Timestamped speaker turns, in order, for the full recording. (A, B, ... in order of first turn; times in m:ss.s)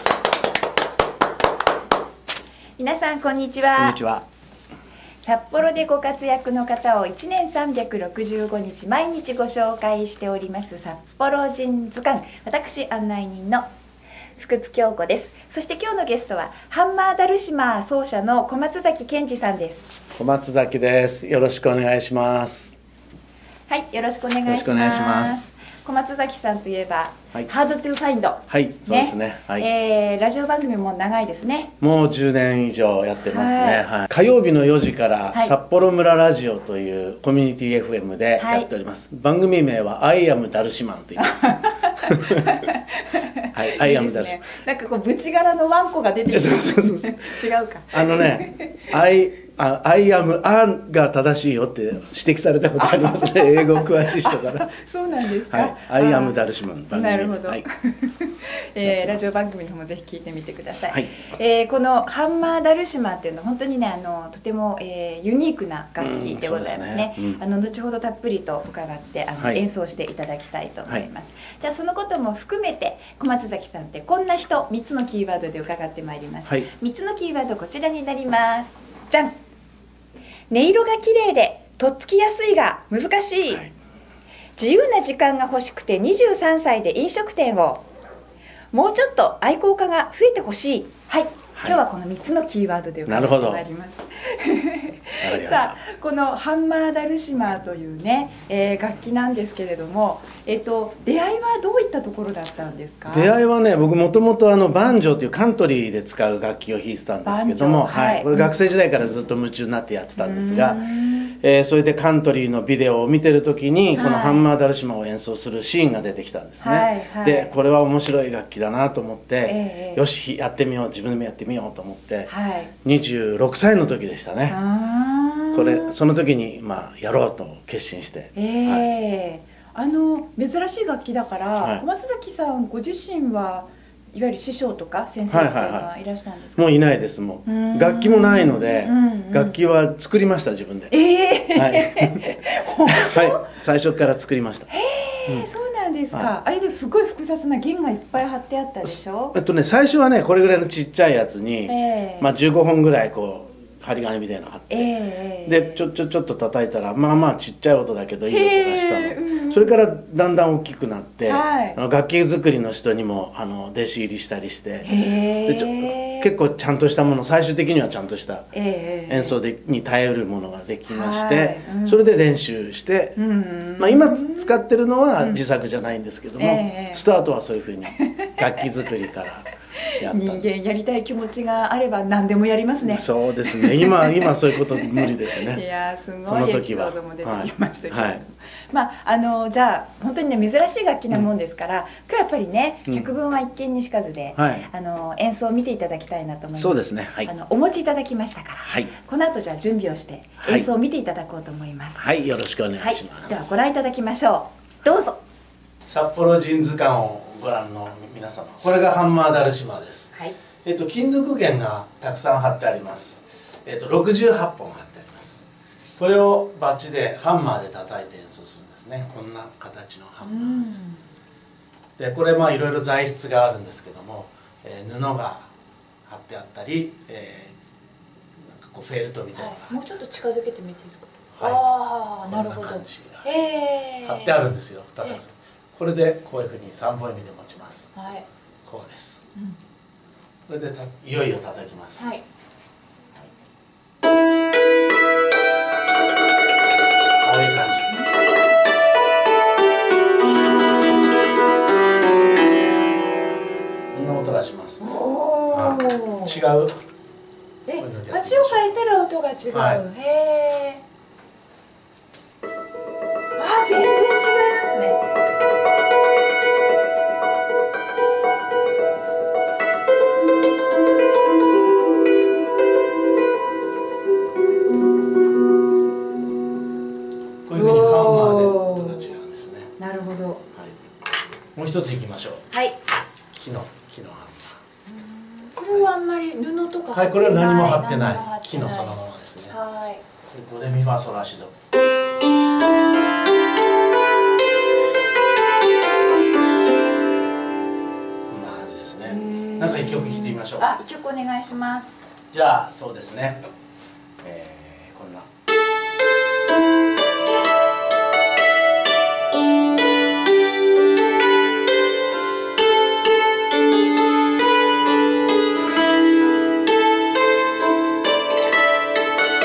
0:02.8-0:04.0 A
0:03.8-0:04.3 B
0:05.2-0:13.6 A
0:14.4-0:19.9 A
0:20.2-0:22.8 B
0:23.7-0:31.7 A
0:24.5-0:25.4 B
0:28.5-0:29.7 B
0:31.8-0:42.6 B
0:33.3-0:33.8 A
0:38.4-0:38.7 A
0:41.2-0:48.8 A
0:43.5-0:44.5 B
0:46.3-0:47.4 B
0:47.9-0:54.7 B
0:52.8-0:56.4 A
0:55.5-0:57.6 B
0:56.9-1:19.3 A
0:58.8-0:59.3 B
1:00.9-1:01.1 B
1:06.0-1:07.4 B
1:20.5-1:23.6 A
1:24.6-1:27.8 A
1:28.7-1:43.3 A
1:31.6-1:31.8 B
1:33.1-1:33.6 B
1:35.2-1:35.8 B
1:43.1-1:50.8 B
1:47.2-1:48.5 A
1:50.2-1:51.3 A
1:51.4-2:02.3 B
1:53.9-1:54.5 A
1:56.6-1:57.5 A
1:59.4-2:00.0 A
2:02.3-2:02.7 A
2:02.8-2:04.6 B
2:04.5-2:05.9 A
2:05.5-2:08.9 B
2:08.4-2:16.6 A
2:11.6-2:11.8 B
2:15.3-2:15.9 B
2:16.6-2:20.9 B
2:17.5-2:19.6 A
2:20.9-2:23.4 A
2:21.5-2:22.3 B
2:22.8-2:24.7 B
2:24.7-2:29.4 A
2:28.8-2:34.9 B
2:31.7-2:32.3 A
2:34.7-2:35.8 A
2:35.5-2:44.9 B
2:38.3-2:39.8 A
2:41.3-2:41.8 A
2:44.8-2:46.3 A
2:45.5-2:48.5 B
2:48.5-2:49.4 A
2:49.1-2:53.2 B
2:50.9-2:52.0 A
2:53.2-2:54.6 A
2:53.8-2:59.5 B
2:56.4-2:57.0 A
2:58.0-2:58.3 A
3:00.0-3:00.4 B
3:00.0-3:22.0 A
3:02.8-3:05.6 B
3:06.2-3:08.2 B
3:14.4-3:14.7 B
3:16.6-3:17.3 B
3:18.6-3:18.9 B
3:20.4-3:20.7 B
3:22.0-3:23.6 B
3:22.8-3:25.2 A
3:25.9-3:30.1 B
3:30.6-3:35.4 B
3:36.0-3:40.8 B
3:40.2-3:41.0 A
3:42.0-3:45.5 B
3:46.0-3:47.6 B
3:48.4-3:49.8 B
3:49.4-3:54.4 A
3:51.4-3:51.7 B
3:52.2-3:53.3 B
3:54.0-3:57.9 B
3:58.0-3:58.2 A
3:58.6-3:59.2 B
4:00.5-4:02.1 B
4:02.0-4:02.2 A
4:07.2-4:07.9 B
4:13.9-4:14.8 B
4:14.8-4:16.4 A
4:15.5-4:16.8 B
4:17.7-4:20.8 A
4:17.8-4:18.7 B
4:19.5-4:19.8 B
4:23.4-4:25.0 A
4:37.5-4:39.7 B
4:37.5-4:39.1 A
4:39.8-4:40.4 A
4:41.6-4:42.4 B
4:43.3-4:44.6 B
4:44.9-4:49.0 A
4:46.9-4:49.6 B
4:49.5-4:50.0 A
4:50.3-4:51.5 B
4:58.3-5:00.7 B
4:59.0-5:02.0 A
5:02.3-5:03.4 B
5:04.2-5:05.3 B